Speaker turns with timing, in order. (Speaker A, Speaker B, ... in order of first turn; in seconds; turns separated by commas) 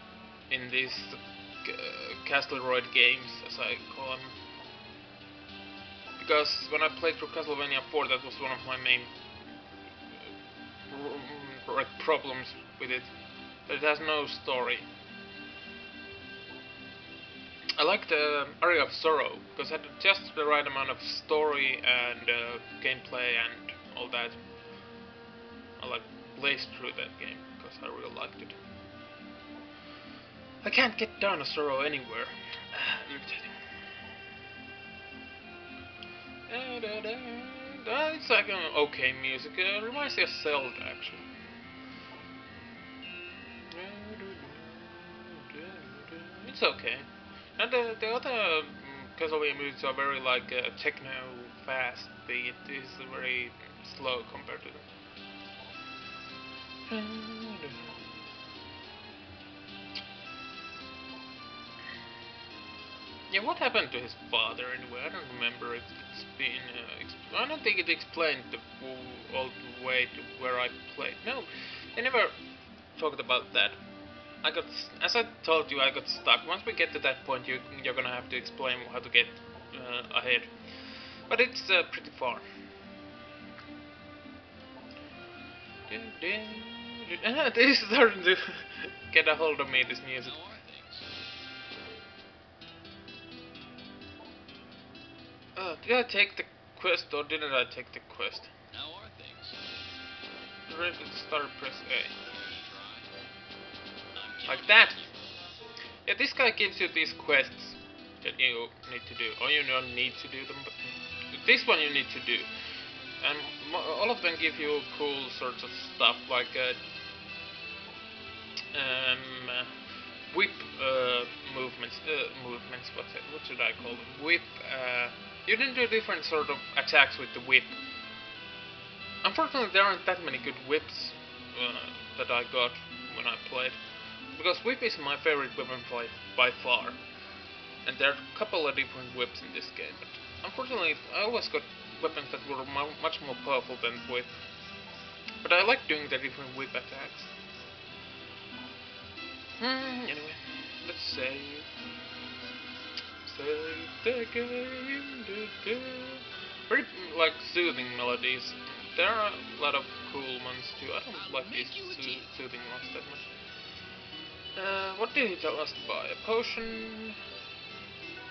Speaker A: 0.5-4.4, Speaker A: 6.2-9.1, Speaker A: 10.9-13.1, Speaker A: 13.7-14.9, Speaker A: 17.8-24.4, Speaker A: 25.8-28.6, Speaker A: 30.6-33.6, Speaker A: 36.5-41.3, Speaker A: 43.7-54.9, Speaker A: 56.9-58.0, Speaker A: 63.3-72.4, Speaker A: 73.0-73.8, Speaker A: 74.4-82.4, Speaker A: 85.9-90.4, Speaker B: 90.2-91.1, Speaker A: 95.6-98.5, Speaker B: 98.7-99.6, Speaker A: 100.7-102.2, Speaker B: 102.2-103.1, Speaker B: 104.2-105.4, Speaker A: 104.5-105.0, Speaker A: 106.1-112.5, Speaker A: 113.2-116.8, Speaker A: 118.7-119.7, Speaker A: 120.3-127.8, Speaker A: 129.2-133.8, Speaker A: 134.3-137.0, Speaker A: 137.8-144.4, Speaker A: 145.4-147.3, Speaker A: 149.6-151.7, Speaker A: 153.2-163.3, Speaker B: 161.6-162.1, Speaker A: 164.6-167.2